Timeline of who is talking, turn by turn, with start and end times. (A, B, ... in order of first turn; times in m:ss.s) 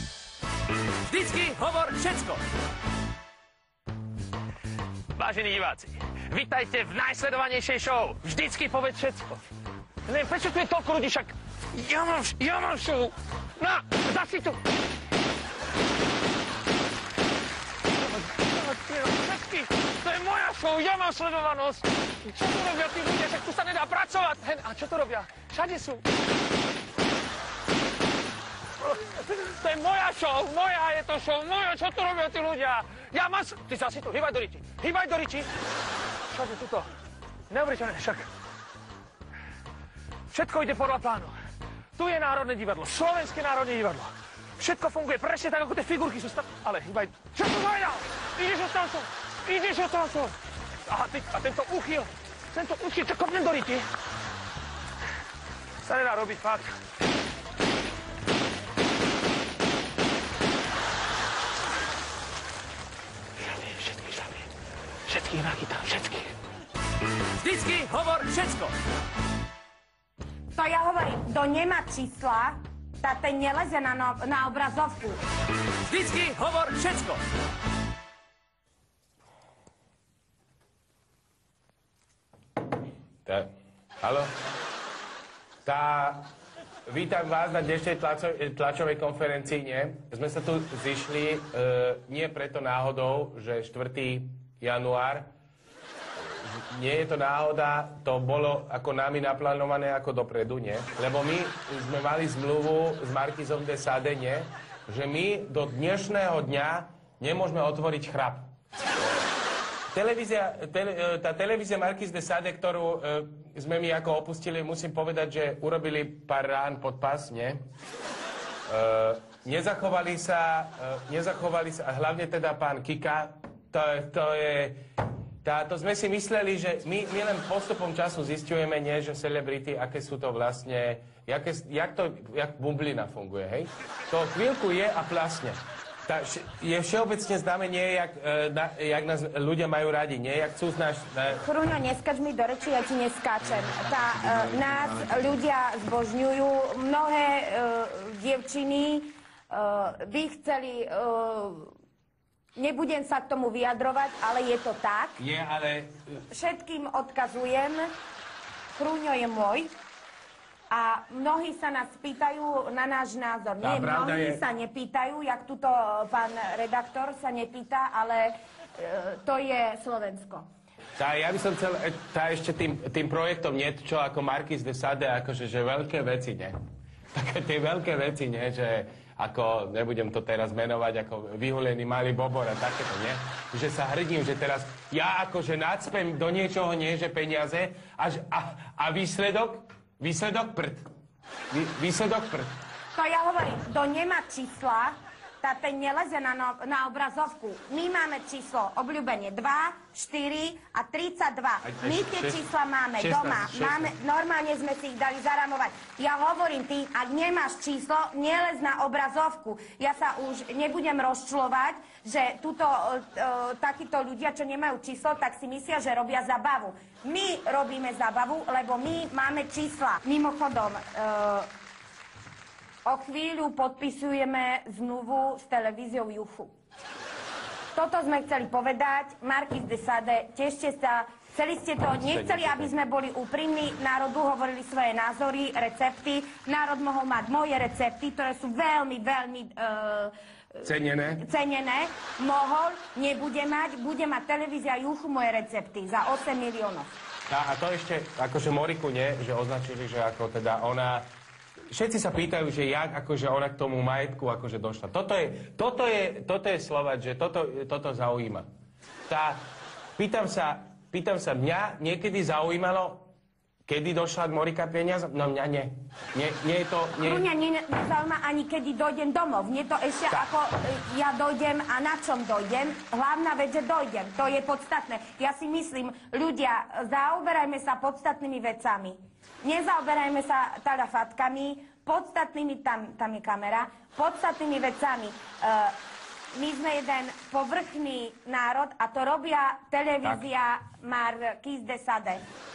0:01.1-0:02.4 A
0:05.1-0:09.4 B
0:10.0-0:14.6 B
0:18.0-0:26.0 B
0:28.8-0:35.5 B
0:36.3-0:36.9 B
0:37.5-0:38.3 B
0:40.3-0:41.3 B
0:42.0-0:50.4 B
0:50.9-0:53.9 B
0:55.8-0:56.8 B
1:03.5-1:04.5 B
1:05.1-1:06.3 B
1:07.4-1:08.7 A
1:10.5-1:15.2 C
1:15.9-1:17.2 A
1:23.2-1:24.3 A
1:25.6-1:26.3 A
1:26.9-1:35.3 A
1:36.2-1:48.5 A
1:49.9-1:57.6 A
1:58.7-2:04.8 A
2:05.4-2:21.4 A
2:21.3-2:31.7 C
2:32.5-2:35.2 C
2:35.2-2:36.1 A
2:36.3-2:37.9 C
2:38.7-2:39.7 C
2:40.7-2:50.5 C
2:43.6-2:44.4 A
2:51.0-2:56.5 A
2:57.1-3:10.8 A
3:11.5-3:12.5 A
3:12.9-3:41.5 C
3:21.6-3:22.4 A
3:23.0-3:23.9 A
3:42.8-3:46.5 C
3:47.7-4:07.0 C
3:51.9-3:52.7 A
4:00.6-4:01.2 A
4:07.3-4:11.1 A
4:11.7-4:18.5 A
4:19.1-4:19.4 A
4:20.0-4:23.1 A
4:23.6-4:27.2 A
4:27.0-4:45.8 C
4:46.3-4:52.2 C